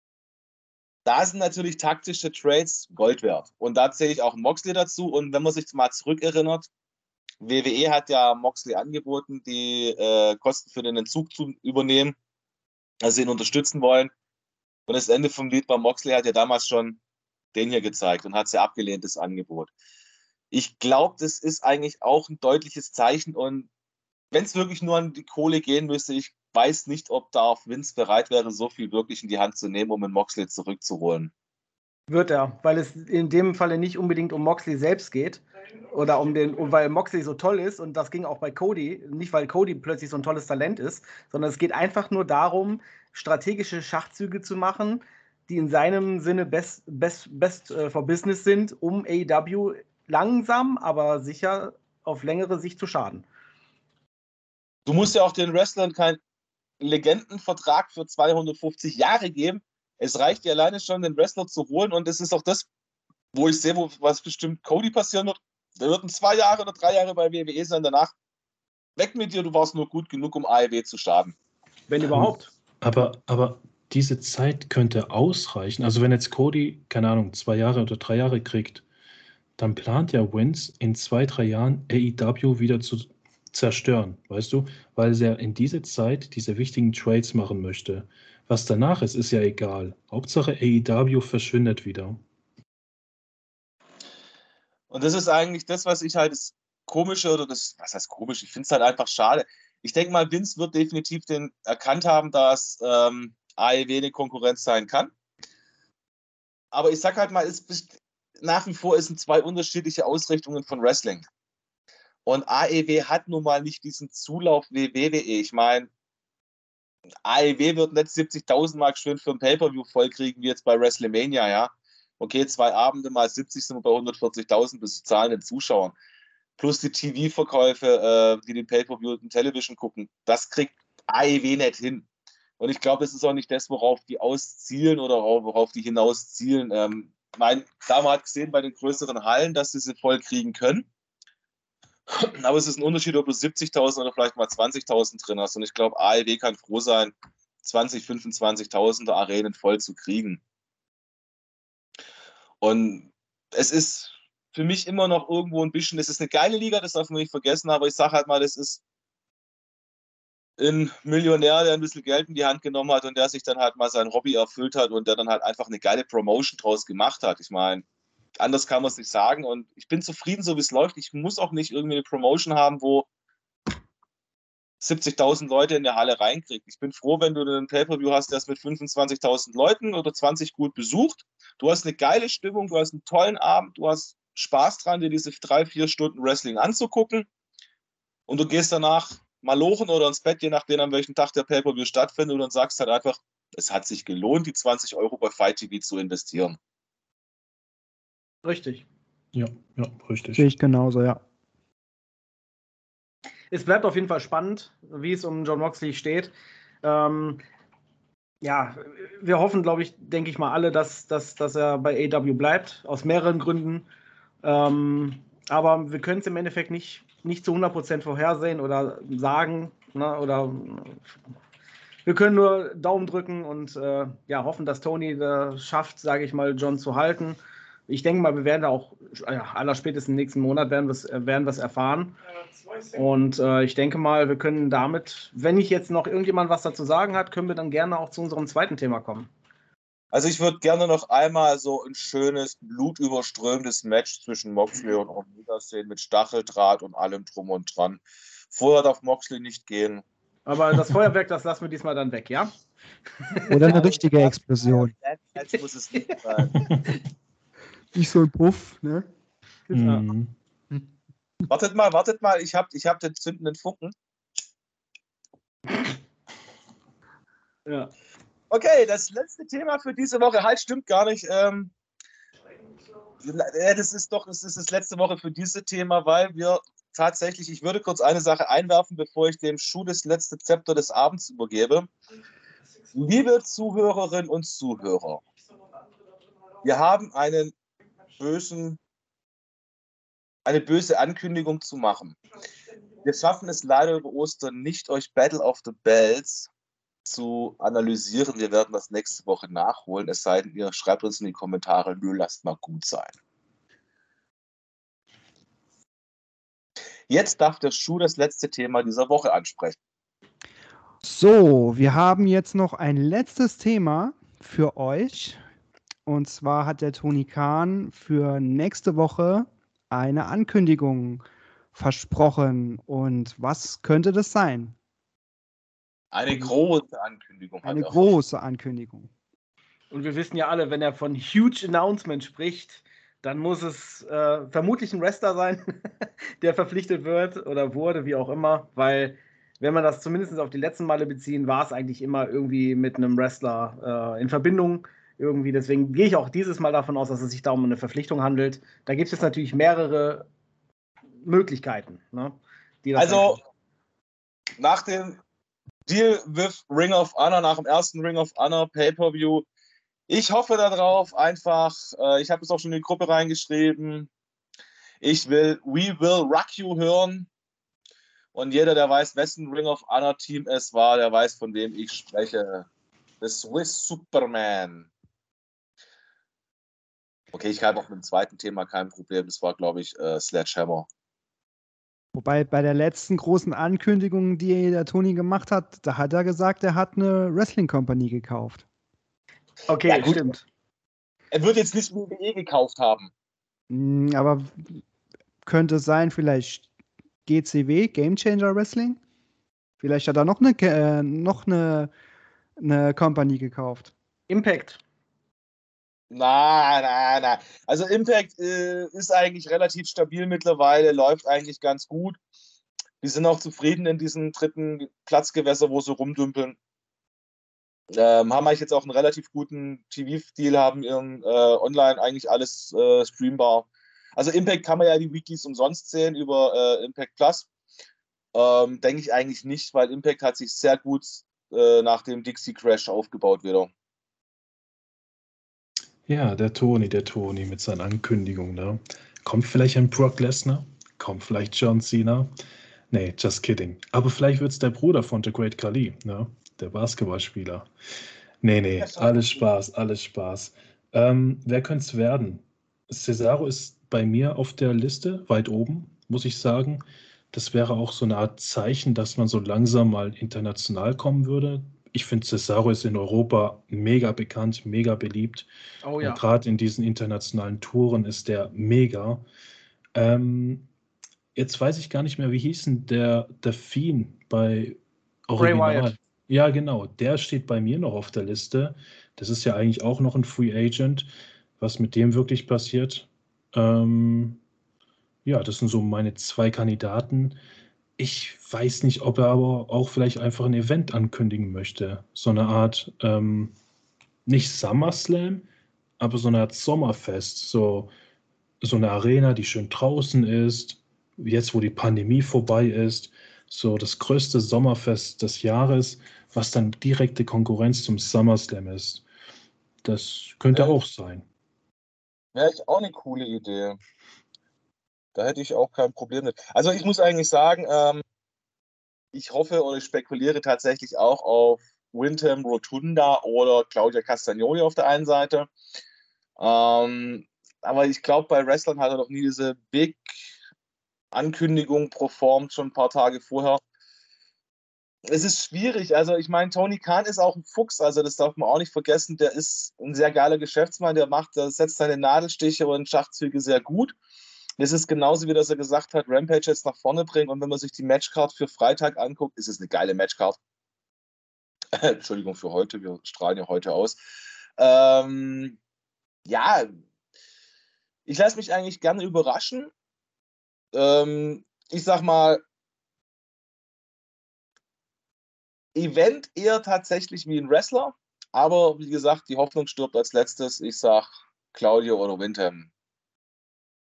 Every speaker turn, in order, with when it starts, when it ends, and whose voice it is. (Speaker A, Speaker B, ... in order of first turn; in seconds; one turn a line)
Speaker A: 1.1-6.7
Speaker A: 7.4-12.2
Speaker A: 13.0-14.1
Speaker A: 14.9-17.0
Speaker A: 17.5-19.7
Speaker A: 20.5-23.7
Speaker A: 24.3-31.3
Speaker B: 32.1-53.3
Speaker A: 54.9-56.2
Speaker A: 56.8-62.7
Speaker A: 63.3-68.2
Speaker A: 69.0-71.3
Speaker B: 71.9-72.5
Speaker C: 72.0-78.8
Speaker C: 79.6-92.2
Speaker A: 94.9-105.1
Speaker A: 106.7-111.2
Speaker A: 112.3-115.9
Speaker A: 117.2-125.9
Speaker A: 126.6-132.1
Speaker A: 132.6-140.9
Speaker A: 142.1-150.4
Speaker A: 152.6-158.8
Speaker A: 160.6-167.8
Speaker A: 168.4-173.1
Speaker A: 174.8-187.3
Speaker A: 188.3-196.6
Speaker B: 198.4-198.9
Speaker C: 199.3-200.5
Speaker D: 200.4-201.2
Speaker B: 203.5-206.3
Speaker B: 206.8-207.4
Speaker B: 208.4-213.9
Speaker B: 214.4-221.0
Speaker B: 222.1-232.2
Speaker B: 232.9-239.3
Speaker A: 240.1-248.0
Speaker A: 248.5-250.0
Speaker B: 250.5-252.5
Speaker B: 253.3-253.6
Speaker D: 253.5-254.9
Speaker A: 253.5-256.7
Speaker C: 256.6-256.9
Speaker D: 257.9-259.1
Speaker B: 259.7-260.1
Speaker C: 259.7-260.3
Speaker A: 261.5-263.9
Speaker B: 267.7-267.9
Speaker A: 268.5-271.7
Speaker A: 273.2-281.9
Speaker A: 282.9-285.2
Speaker A: 286.6-287.5
Speaker A: 288.2-288.8
Speaker A: 290.4-292.2
Speaker A: 293.0-296.5
Speaker A: 297.1-303.1
Speaker A: 307.1-309.8
Speaker D: 311.0-315.4
Speaker D: 316.1-321.2
Speaker D: 321.7-324.8
Speaker A: 326.1-328.1
Speaker D: 327.6-329.1
Speaker B: 329.9-335.6
Speaker B: 336.4-350.3
Speaker B: 351.2-353.4
Speaker A: 353.0-353.4
Speaker A: 354.6-355.2
Speaker A: 355.9-359.5
Speaker A: 360.1-364.1
Speaker A: 365.0-367.3
Speaker A: 368.3-372.7
Speaker A: 373.2-374.9
Speaker A: 377.3-380.9
Speaker D: 382.1-388.6
Speaker B: 389.7-390.4
Speaker A: 389.9-390.3
Speaker A: 391.3-393.1
Speaker D: 393.7-394.8
Speaker D: 395.4-396.7
Speaker D: 397.3-399.0
Speaker D: 399.8-401.9
Speaker D: 402.6-403.9
Speaker B: 404.3-404.8
Speaker A: 406.1-412.2
Speaker A: 413.0-416.6
Speaker A: 417.9-427.5
Speaker A: 428.3-433.7
Speaker C: 436.1-442.3
Speaker C: 442.9-447.7
Speaker C: 448.4-465.5
Speaker A: 448.8-449.4
Speaker B: 465.8-466.2
Speaker C: 466.0-469.2
Speaker C: 469.9-470.7
Speaker C: 471.4-481.1
Speaker B: 475.4-475.9
Speaker C: 481.6-484.4
Speaker C: 485.2-487.4
Speaker C: 488.0-493.5
Speaker C: 494.3-495.5
Speaker C: 496.0-497.9
Speaker C: 498.6-509.1
Speaker C: 509.8-511.2
Speaker A: 512.3-513.8
Speaker A: 515.1-518.0
Speaker A: 519.1-525.5
Speaker A: 526.4-530.1
Speaker A: 531.1-533.6
Speaker A: 535.1-544.0
Speaker A: 544.6-550.4
Speaker A: 551.7-554.0
Speaker A: 554.6-555.6
Speaker A: 556.3-556.7
Speaker A: 558.1-559.7
Speaker A: 560.7-562.4
Speaker A: 565.8-572.7